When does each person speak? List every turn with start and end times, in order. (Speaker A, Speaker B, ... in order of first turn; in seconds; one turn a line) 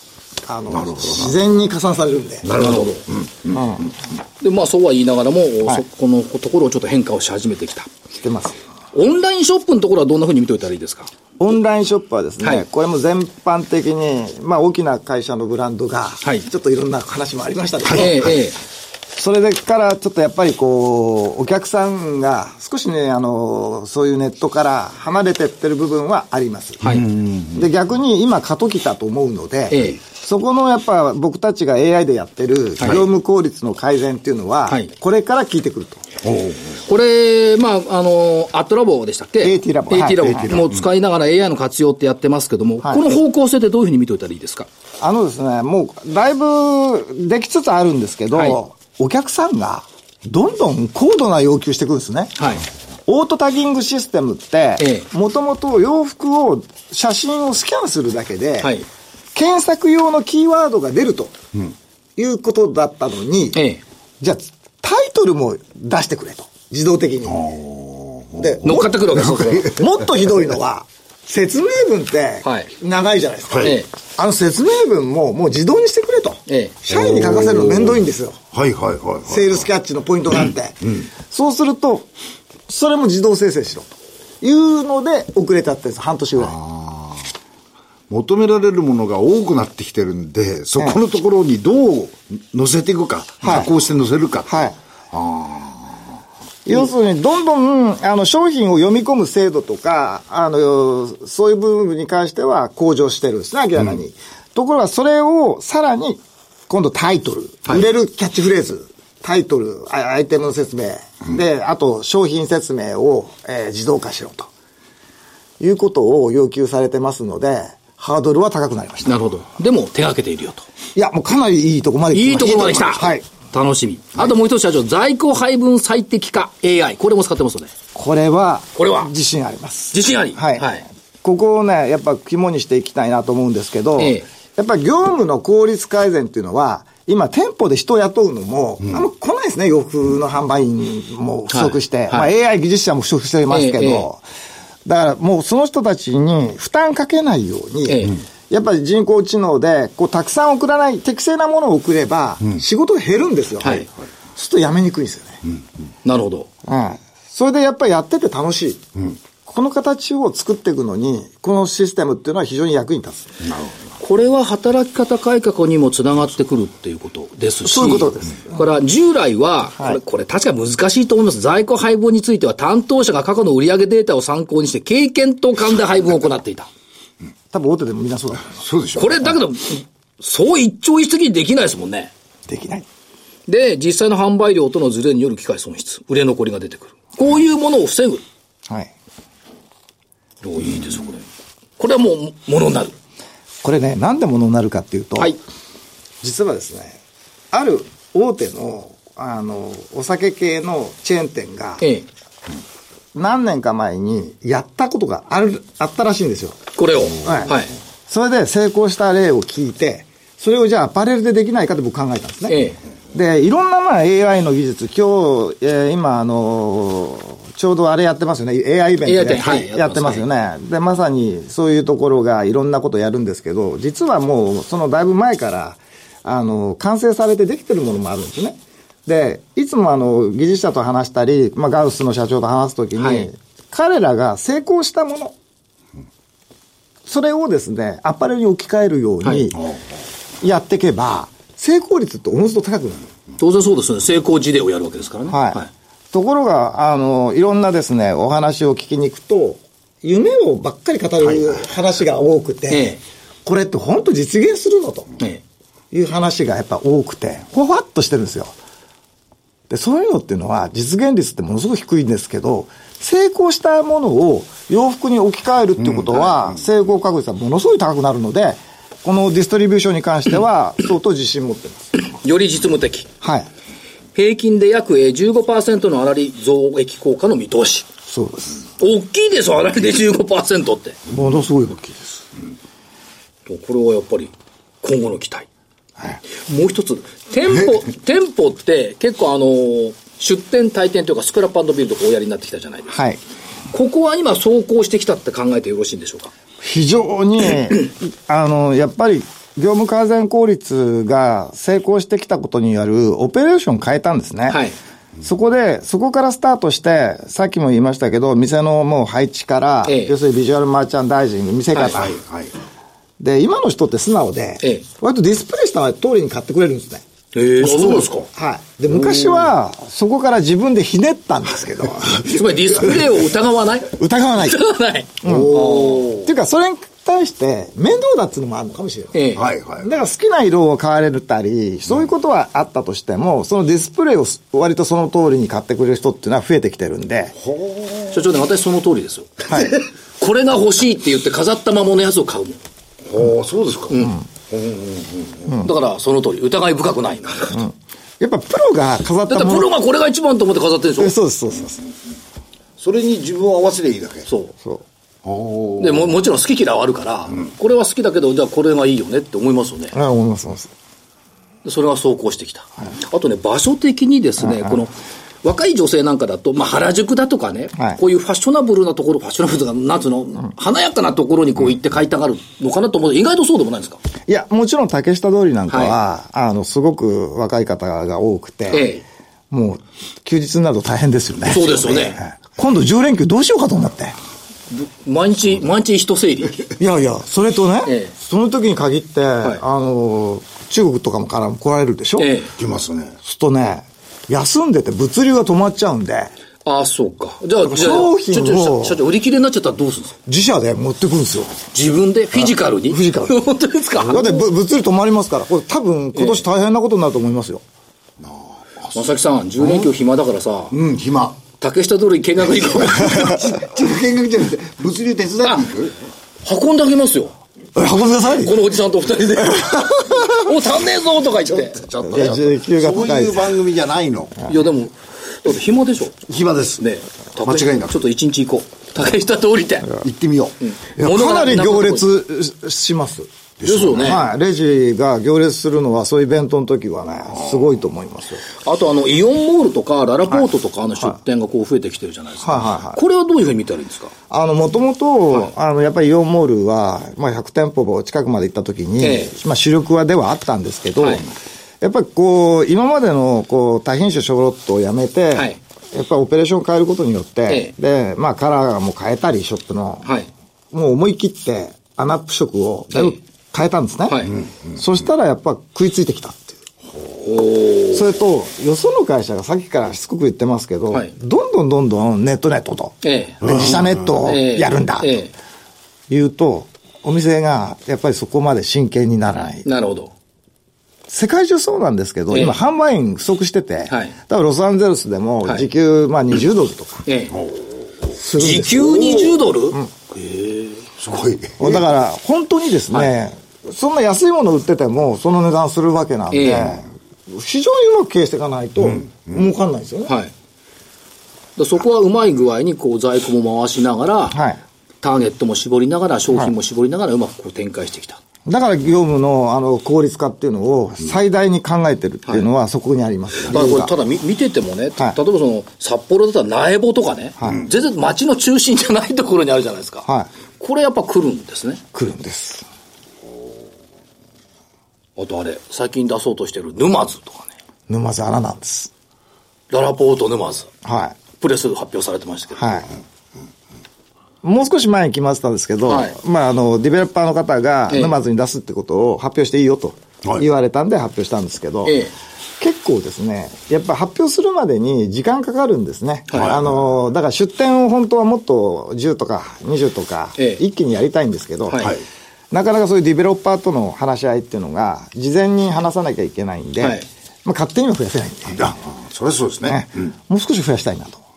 Speaker A: 0.5-2.5
Speaker B: 0.7-1.4
Speaker B: 2.4-3.7
Speaker C: 2.5-3.0
Speaker A: 3.5-3.9
Speaker C: 4.4-7.9
Speaker A: 8.2-8.6
Speaker C: 8.9-11.1
Speaker A: 11.4-18.4
Speaker B: 17.9-18.1
Speaker C: 17.9-18.6
Speaker A: 19.2-26.8
Speaker B: 26.8-27.6
Speaker A: 27.5-36.0
Speaker C: 29.7-30.0
Speaker B: 36.2-36.7
Speaker C: 36.9-44.7
Speaker A: 39.4-40.5
Speaker B: 40.2-40.8
Speaker A: 45.0-52.4
Speaker C: 48.3-48.6
Speaker C: 52.4-52.6
Speaker A: 53.1-58.7
Speaker C: 54.8-55.1
Speaker C: 58.6-58.9
Speaker A: 59.4-61.4
Speaker A: 62.2-63.6
Speaker C: 63.5-63.8
Speaker A: 64.2-67.6
Speaker B: 67.3-69.8
Speaker A: 68.4-78.4
Speaker C: 68.6-69.8
Speaker C: 72.4-72.7
Speaker B: 73.5-73.8
Speaker C: 73.6-73.9
Speaker C: 76.5-76.8
Speaker B: 76.9-78.0
Speaker B: 78.5-79.6
Speaker A: 79.3-82.1
Speaker A: 82.7-86.5
Speaker B: 86.5-87.2
Speaker B: 88.1-96.0
Speaker A: 93.4-93.7
Speaker A: 94.5-94.8
Speaker A: 96.7-114.5
Speaker A: 115.6-119.2
Speaker C: 119.0-120.7
Speaker A: 121.0-123.2
Speaker C: 122.1-127.7
Speaker B: 122.6-122.9
Speaker A: 128.0-130.7
Speaker C: 128.8-129.1
Speaker C: 129.9-130.9
Speaker A: 131.2-144.2
Speaker C: 134.0-134.2
Speaker C: 141.5-142.3
Speaker C: 143.5-144.1
Speaker A: 144.9-155.4
Speaker C: 147.9-148.2
Speaker C: 153.6-153.9
Speaker C: 156.1-156.5
Speaker A: 156.7-158.8
Speaker A: 159.4-163.3
Speaker B: 163.4-163.7
Speaker C: 164.0-176.7
Speaker A: 167.7-168.6
Speaker A: 177.5-178.6
Speaker B: 178.6-179.3
Speaker C: 179.0-182.1
Speaker A: 182.5-182.9
Speaker C: 183.5-188.2
Speaker C: 190.4-191.3
Speaker C: 191.8-192.9
Speaker A: 193.6-195.4
Speaker A: 196.2-197.0
Speaker A: 197.5-201.8
Speaker C: 201.8-202.1
Speaker A: 203.2-206.6
Speaker C: 206.8-207.7
Speaker A: 207.2-207.5
Speaker A: 208.1-212.6
Speaker C: 212.5-212.8
Speaker A: 213.1-235.3
Speaker C: 219.1-220.3
Speaker C: 233.0-233.3
Speaker A: 237.1-239.6
Speaker C: 239.2-239.5
Speaker A: 240.4-243.1
Speaker C: 243.4-245.7
Speaker A: 245.3-245.6
Speaker A: 246.1-252.9
Speaker C: 252.7-253.0
Speaker A: 253.4-255.1
Speaker A: 255.9-258.6
Speaker A: 259.7-272.0
Speaker C: 272.0-273.1
Speaker A: 273.2-273.5
Speaker C: 274.1-277.9
Speaker A: 278.1-278.6
Speaker C: 278.8-281.0
Speaker A: 281.1-282.1
Speaker C: 283.5-285.5
Speaker C: 286.3-293.0
Speaker A: 292.9-293.2
Speaker C: 293.7-296.3
Speaker A: 296.6-304.6
Speaker C: 304.5-304.8
Speaker A: 305.2-312.2
Speaker C: 309.9-310.1
Speaker B: 311.9-312.5
Speaker A: 313.2-317.0
Speaker C: 317.4-318.2
Speaker B: 317.7-318.2
Speaker A: 318.3-322.3
Speaker C: 322.2-326.2
Speaker A: 323.9-324.6
Speaker A: 325.2-329.3
Speaker B: 325.2-326.2
Speaker C: 329.1-329.4
Speaker B: 329.4-329.9
Speaker A: 329.8-337.4
Speaker B: 337.4-338.2
Speaker C: 338.1-342.6
Speaker A: 339.5-339.7
Speaker B: 343.1-345.5
Speaker C: 345.6-347.6
Speaker A: 347.5-349.7
Speaker C: 349.3-351.1
Speaker A: 351.0-351.8
Speaker B: 352.8-354.3
Speaker C: 354.3-354.5
Speaker B: 355.2-356.1
Speaker C: 355.8-360.0
Speaker A: 359.9-360.7
Speaker C: 361.6-374.0
Speaker A: 364.4-364.8
Speaker A: 374.3-378.9
Speaker C: 375.7-375.9
Speaker C: 378.7-379.0
Speaker A: 379.5-384.2
Speaker C: 381.5-382.2
Speaker C: 384.7-386.7
Speaker A: 386.8-392.3
Speaker C: 387.9-388.1
Speaker C: 392.2-392.5
Speaker B: 392.6-393.2
Speaker A: 393.2-396.3
Speaker C: 396.6-400.2
Speaker A: 397.6-399.0
Speaker A: 400.3-401.6
Speaker C: 401.7-404.4
Speaker A: 402.4-403.4
Speaker A: 404.1-407.6
Speaker C: 408.9-410.7
Speaker B: 410.7-411.4
Speaker C: 411.6-413.3
Speaker B: 412.6-416.0
Speaker C: 415.4-415.7
Speaker C: 416.4-417.4
Speaker A: 417.8-418.6
Speaker C: 418.4-421.8
Speaker B: 421.5-424.5
Speaker A: 422.0-423.6
Speaker C: 424.5-426.2
Speaker B: 426.3-426.8
Speaker C: 426.8-429.9
Speaker B: 427.4-428.0
Speaker B: 430.0-430.6
Speaker C: 430.6-432.1
Speaker A: 431.0-433.3
Speaker B: 433.6-434.2
Speaker C: 433.6-434.2
Speaker A: 433.9-438.4
Speaker C: 438.6-444.1
Speaker A: 442.4-443.0
Speaker A: 444.3-451.2
Speaker C: 449.0-449.3
Speaker C: 451.0-451.2
Speaker A: 451.8-460.1
Speaker C: 457.5-457.7
Speaker A: 460.7-466.6
Speaker C: 462.9-463.2
Speaker C: 464.1-464.4
Speaker C: 467.2-468.1
Speaker A: 467.9-475.1
Speaker C: 473.0-473.7
Speaker B: 473.5-473.9
Speaker C: 474.2-475.3
Speaker A: 476.1-479.7
Speaker C: 479.6-480.1
Speaker A: 481.1-487.0
Speaker C: 482.3-482.6
Speaker C: 483.9-484.2
Speaker C: 487.1-487.4
Speaker B: 487.3-487.7
Speaker A: 488.2-489.9
Speaker C: 488.4-490.8
Speaker B: 491.0-491.8
Speaker A: 491.6-500.1
Speaker C: 496.3-496.8
Speaker C: 500.1-500.3
Speaker C: 501.6-504.4
Speaker A: 504.3-504.6
Speaker C: 505.0-508.2
Speaker A: 508.5-513.9
Speaker C: 513.5-520.1
Speaker A: 517.4-517.6
Speaker C: 520.6-521.8
Speaker A: 521.9-522.7
Speaker C: 525.2-527.5
Speaker A: 527.9-528.9
Speaker C: 529.7-530.7
Speaker A: 530.9-531.2
Speaker C: 531.4-532.8
Speaker A: 532.6-532.9
Speaker A: 534.4-542.0
Speaker C: 535.9-536.2
Speaker C: 537.9-538.2
Speaker C: 541.9-542.1
Speaker A: 542.6-551.9
Speaker C: 546.3-546.6
Speaker B: 546.3-546.7
Speaker C: 551.7-552.0
Speaker A: 552.5-558.8
Speaker C: 556.8-557.1
Speaker B: 558.5-559.9
Speaker A: 559.6-561.2